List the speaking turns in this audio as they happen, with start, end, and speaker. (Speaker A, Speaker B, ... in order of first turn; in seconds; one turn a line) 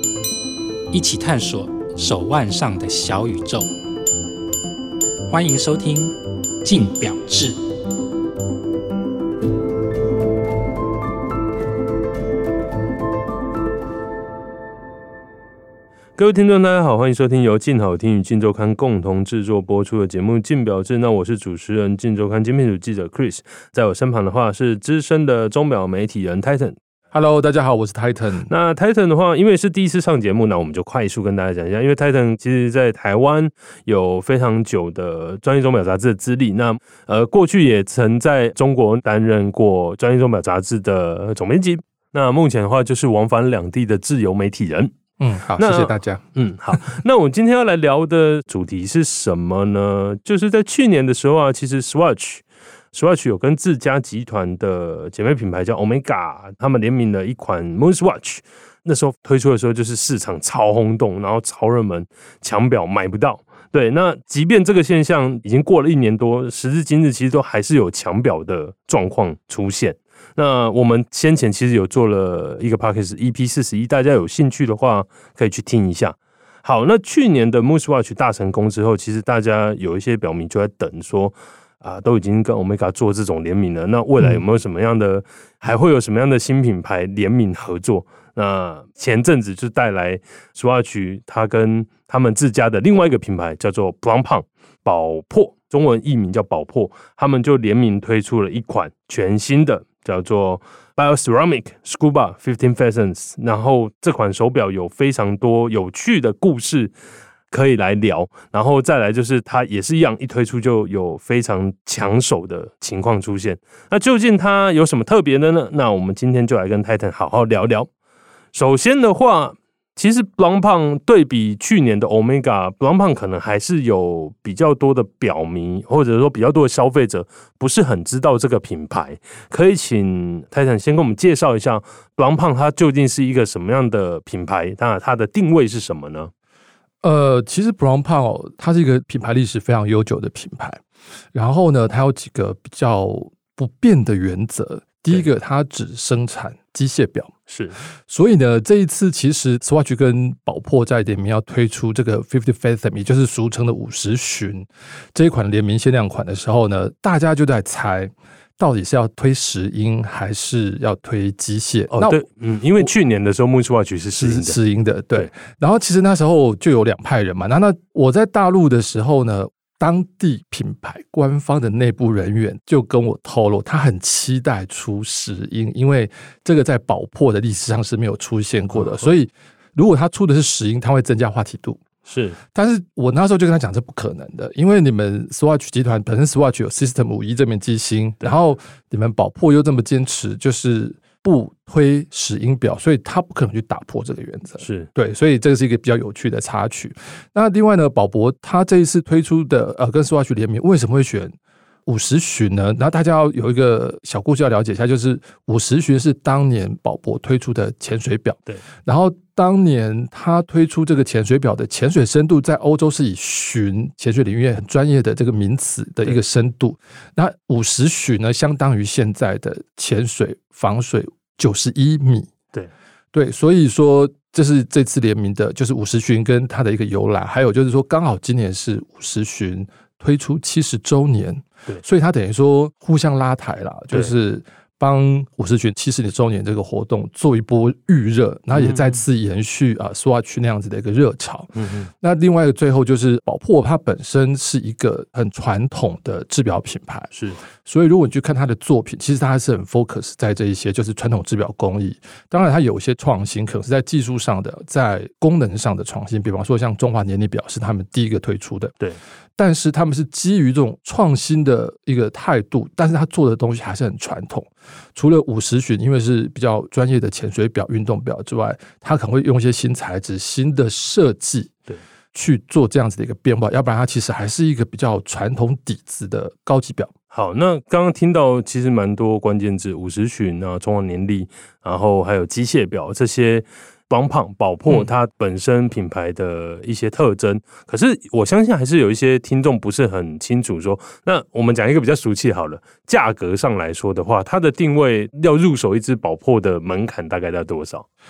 Speaker A: 0.9-3.7
Speaker A: 5.3-7.6
Speaker B: 16.2-26.8
Speaker C: 27.1-28.5
Speaker B: 28.5-44.9
Speaker C: 45.2-47.0
Speaker B: 45.6-106.9
Speaker B: 107.5-117.9
Speaker B: 118.5-136.3
Speaker C: 137.0-140.8
Speaker C: 141.3-147.3
Speaker B: 147.5-147.8
Speaker C: 148.1-162.2
Speaker B: 161.9-164.6
Speaker C: 164.2-181.8
Speaker B: 178.8-179.1
Speaker B: 182.1-182.4
Speaker C: 182.5-201.3
Speaker B: 194.6-194.9
Speaker C: 201.9-222.3
Speaker C: 223.1-258.8
Speaker B: 238.5-239.0
Speaker B: 241.6-241.9
Speaker B: 247.1-247.4
Speaker C: 259.4-271.5
Speaker C: 272.1-276.9
Speaker B: 277.1-297.9